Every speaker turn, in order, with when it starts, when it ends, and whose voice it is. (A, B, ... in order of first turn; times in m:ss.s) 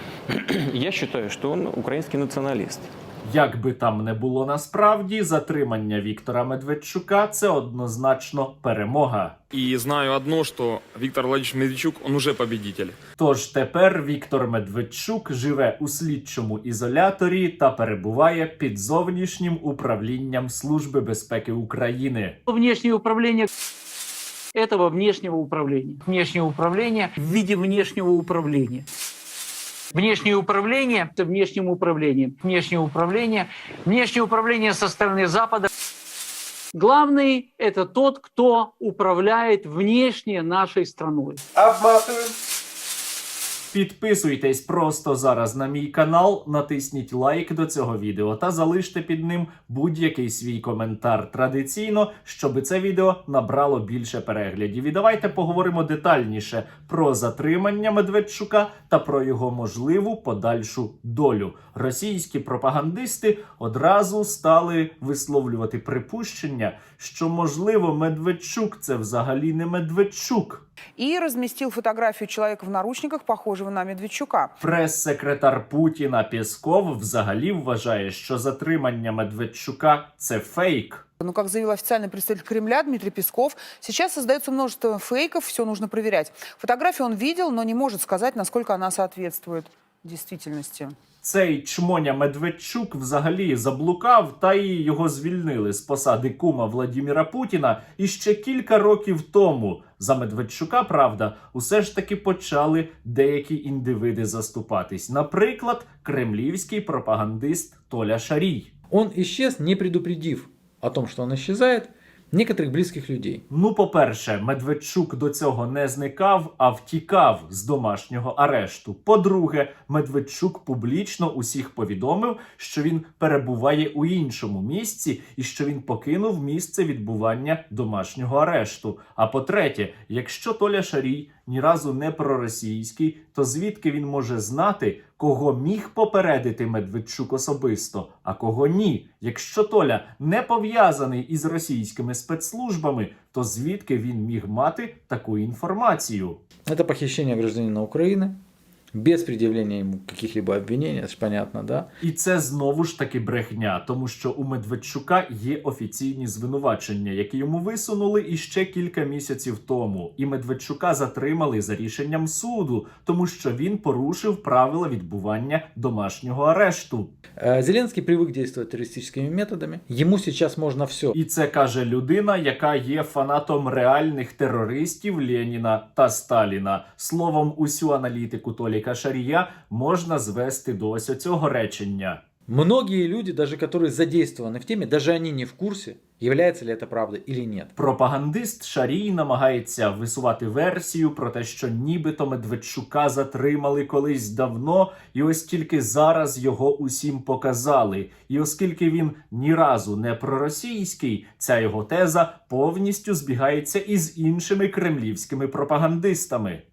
0:00.3-0:02.9 A
0:03.2-0:09.4 B
0:09.5-0:13.0 C
0:13.2-0:22.4 B
0:22.5-0:23.5 D
0:24.5-0:28.9 D
0:29.9-0:35.7 D
0:36.7-0:41.4 D
0:43.7-1:10.6 B
1:11.0-1:14.5 E
1:14.6-1:21.0 B
1:21.2-1:31.0 E
1:31.2-1:48.7 B
1:48.9-1:53.4 F
1:53.5-2:26.4 B
2:26.7-2:28.4 F
2:28.9-2:31.9 F
2:32.0-2:47.1 B
2:47.4-2:51.2 F
2:51.1-3:02.2 B
3:02.5-3:07.7 F
3:07.8-3:26.6 B